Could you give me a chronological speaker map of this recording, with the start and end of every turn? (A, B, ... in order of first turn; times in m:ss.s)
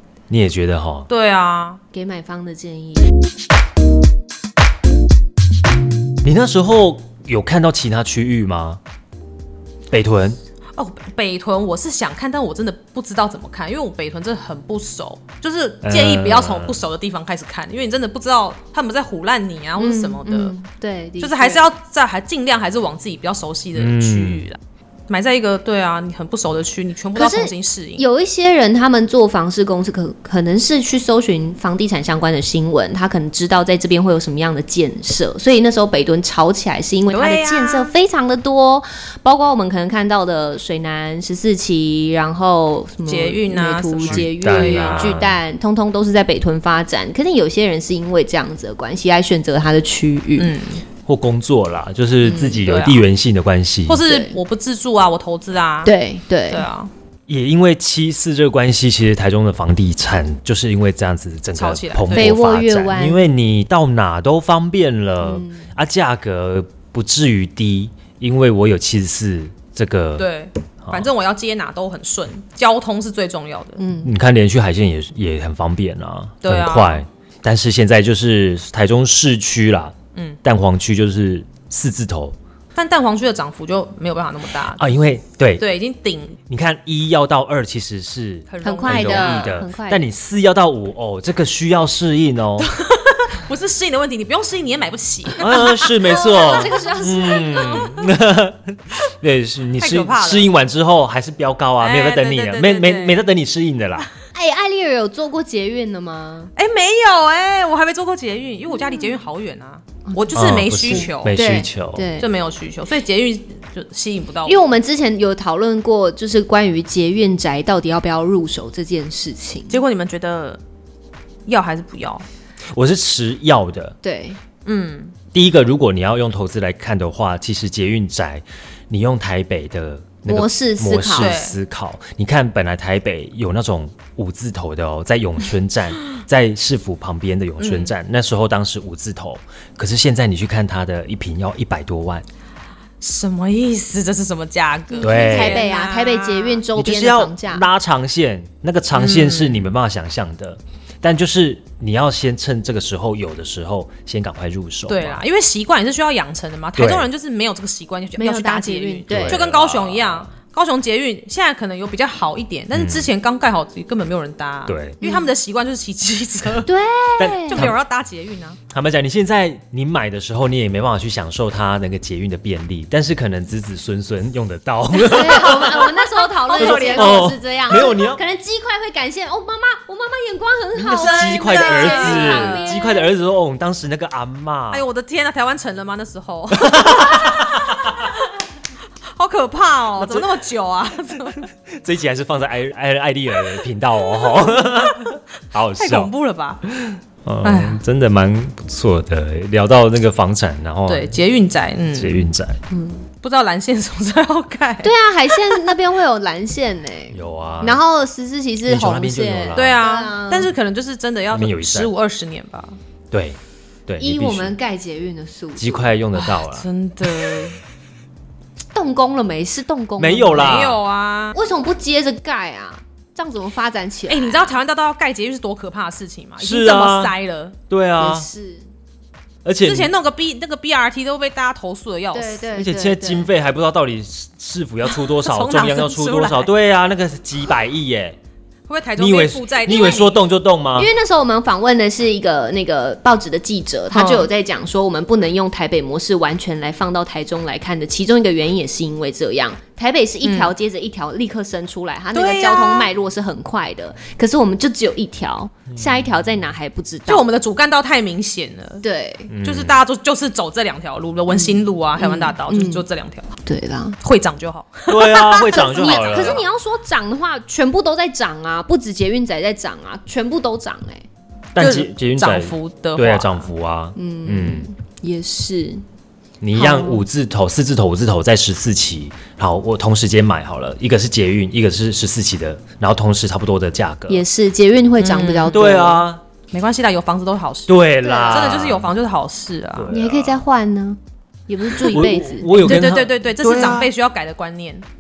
0:00.3-0:01.1 A
0:01.1-0:01.8 B
0:01.9-0:03.1 C
0:06.2-0:08.8 A
0:09.9-0:10.4 A
0:10.8-0:20.5 B
0:15.8-0:16.8 A
0:19.8-0:21.6 C
0:21.2-0:28.0 B
0:23.7-0:24.4 A
0:27.1-0:50.5 C
0:37.1-0:37.9 B
0:43.0-0:45.1 B
0:44.0-0:45.4 A
0:50.4-0:50.8 B
0:51.1-0:54.0 A
0:52.2-0:52.6 C
0:52.6-0:53.0 B
0:53.9-0:55.9 B
0:54.0-0:54.4 C
0:55.8-0:56.7 C
0:56.5-0:56.9 B
0:57.3-1:10.3 A
1:01.5-1:02.4 B
1:02.1-1:03.2 C
1:05.2-1:05.7 C
1:10.2-1:13.8 B
1:10.8-1:11.1 A
1:13.8-1:14.1 C
1:14.0-1:22.4 A
1:16.4-1:17.0 B
1:22.7-1:24.9 B
1:24.7-1:25.6 A
1:25.6-1:26.4 B
1:26.5-1:32.7 A
1:28.5-1:29.6 B
1:28.6-1:30.0 C
1:32.6-1:37.8 B
1:35.4-1:44.1 A
1:35.9-1:37.9 C
1:39.8-1:40.5 B
1:41.8-1:43.3 B
1:44.3-1:46.5 C
1:46.6-1:51.4 B
1:50.1-1:52.3 C
1:50.3-1:52.1 A
1:52.2-1:54.6 B
1:54.4-1:59.8 C
1:59.7-2:00.6 B
2:01.4-2:02.2 B
2:02.7-2:03.9 A
2:04.0-2:04.4 C
2:04.6-2:05.1 B
2:05.3-2:22.2 A
2:10.2-2:11.4 C
2:11.2-2:11.6 B
2:17.6-2:17.9 B
2:23.0-2:26.6 B
2:24.9-2:27.7 C
2:25.0-2:25.6 A
2:26.7-2:35.2 A
2:28.9-2:29.7 B
2:34.9-2:46.7 B
2:36.8-2:37.1 A
2:38.2-2:39.4 C
2:39.1-2:40.3 A
2:42.7-2:43.1 A
2:44.7-2:45.0 A
2:45.0-2:45.3 C
2:46.6-2:47.7 C
2:47.2-2:47.8 A
2:47.5-2:48.6 B
2:48.7-2:56.0 A
2:55.0-3:03.1 C
2:55.1-2:55.7 B
2:56.3-2:57.4 B
2:56.5-2:58.2 A
3:00.8-3:04.8 A
3:00.9-3:02.8 B
3:04.7-3:08.3 B
3:06.5-3:07.9 A
3:09.1-3:11.5 B
3:10.0-3:10.4 A
3:11.6-3:16.1 A
3:14.2-3:15.1 B
3:15.8-3:16.6 B
3:16.6-3:21.1 A
3:17.4-3:17.8 B
3:20.9-3:22.3 B
3:22.0-3:22.6 A
3:22.7-3:23.0 C
3:23.2-3:25.6 B
3:24.8-3:30.5 C
3:27.1-3:27.8 A
3:28.6-3:29.8 A
3:29.5-3:32.8 B
3:31.3-3:31.9 A
3:33.1-3:34.5 A
3:34.0-3:36.0 C
3:35.6-3:36.7 A
3:36.2-3:37.6 B
3:37.2-3:37.5 A
3:38.7-3:40.6 C
3:40.0-3:40.8 A
3:40.3-3:41.4 B
3:41.3-3:44.5 C
3:44.1-3:47.6 B
3:46.4-3:47.1 A
3:47.7-3:48.3 A
3:48.0-3:48.7 C
3:49.4-3:49.9 A
3:49.6-3:52.5 B
3:52.1-3:53.3 C
3:52.6-3:58.2 A
3:54.9-3:56.5 B
3:58.7-4:00.2 B
3:59.0-4:00.9 A
4:00.8-4:17.3 C
4:03.9-4:04.3 B
4:10.2-4:10.5 B
4:12.1-4:12.9 B
4:17.1-4:18.8 B
4:18.8-4:19.3 C
4:19.3-4:19.8 A
4:19.4-4:23.3 B
4:21.3-4:22.8 C
4:23.4-4:24.0 C
4:24.0-4:26.4 B
4:24.9-4:26.5 A
4:25.3-4:31.0 C
4:31.5-4:34.7 A
4:31.6-4:33.5 B
4:34.0-4:35.8 C
4:36.4-4:44.2 A
4:36.5-4:37.0 C
4:44.1-4:46.0 C
4:45.0-4:45.8 B
4:45.5-4:46.2 A
4:46.5-4:49.9 B
4:47.7-4:48.9 A
4:49.7-4:50.4 A
4:49.9-4:52.9 C
4:51.8-4:53.9 A
4:52.6-4:54.8 B